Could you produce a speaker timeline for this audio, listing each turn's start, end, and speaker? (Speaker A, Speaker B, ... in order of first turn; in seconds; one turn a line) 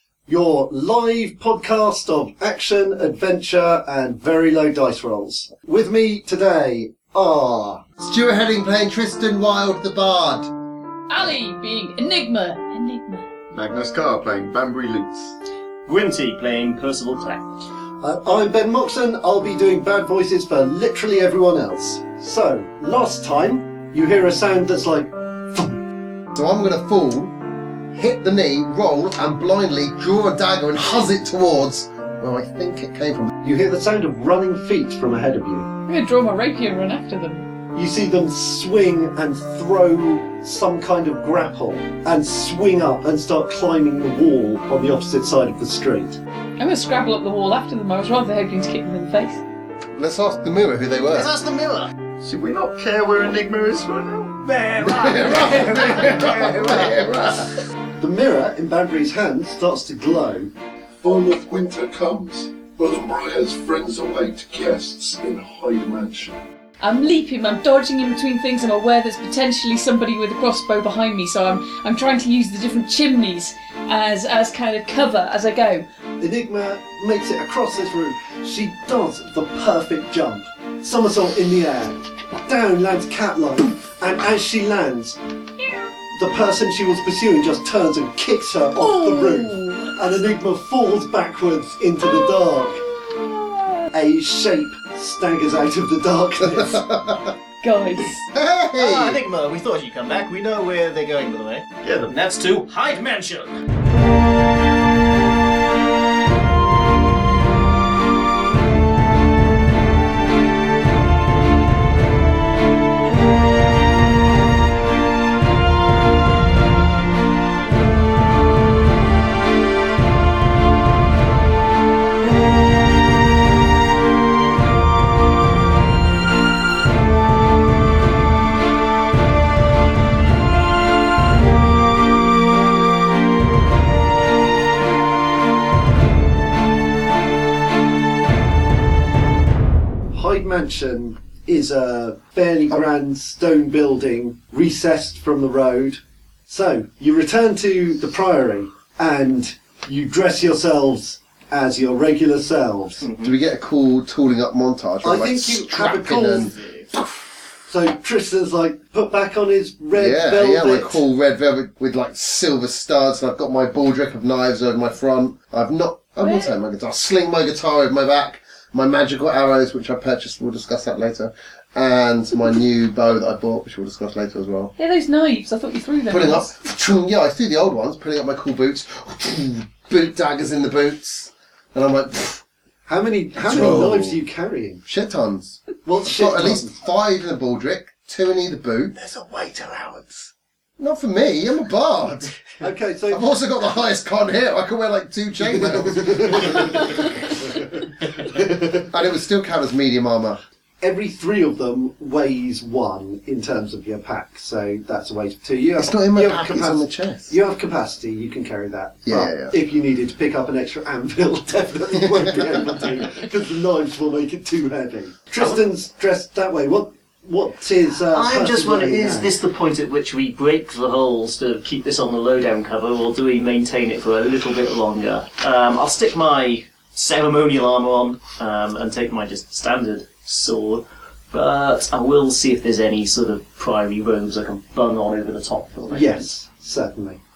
Speaker A: 0.3-7.9
Speaker B: 8.0-10.5
Speaker C: 11.1-13.2
Speaker D: 13.5-15.3
Speaker E: 15.8-17.5
Speaker A: 18.0-25.8
Speaker B: 26.3-27.4
Speaker B: 27.9-33.3
Speaker A: 33.4-35.7
Speaker C: 35.9-37.5
Speaker A: 37.7-46.2
Speaker C: 46.6-49.4
Speaker B: 49.9-51.3
Speaker E: 51.1-51.9
Speaker D: 52.2-54.5
Speaker E: 54.4-57.0
Speaker B: 54.8-57.5
Speaker A: 58.0-60.5
Speaker F: 61.0-66.4
Speaker C: 66.8-75.8
Speaker A: 76.2-85.2
Speaker A: 86.1-92.8
Speaker C: 88.8-90.0
Speaker A: 93.9-96.8
Speaker B: 96.4-97.3
Speaker C: 97.6-98.3
Speaker B: 98.3-99.2
Speaker E: 98.7-103.6
Speaker D: 101.8-102.1
Speaker A: 140.1-153.1
Speaker E: 153.0-153.3
Speaker B: 153.2-156.5
Speaker A: 155.0-156.5
Speaker E: 156.1-156.9
Speaker A: 157.7-161.0
Speaker B: 159.9-174.7
Speaker C: 166.2-166.5
Speaker C: 174.8-176.5
Speaker B: 176.1-182.4
Speaker A: 182.9-184.8
Speaker B: 183.4-184.2
Speaker B: 184.8-188.9
Speaker A: 185.8-186.7
Speaker D: 189.0-190.2
Speaker B: 190.8-192.3
Speaker A: 192.6-193.3
Speaker B: 193.1-197.2
Speaker A: 195.5-196.9
Speaker A: 198.3-198.8
Speaker B: 198.9-200.4
Speaker A: 200.8-219.3
Speaker B: 205.8-207.3
Speaker B: 209.1-209.5
Speaker B: 212.0-212.5
Speaker E: 218.1-236.3
Speaker A: 235.9-237.2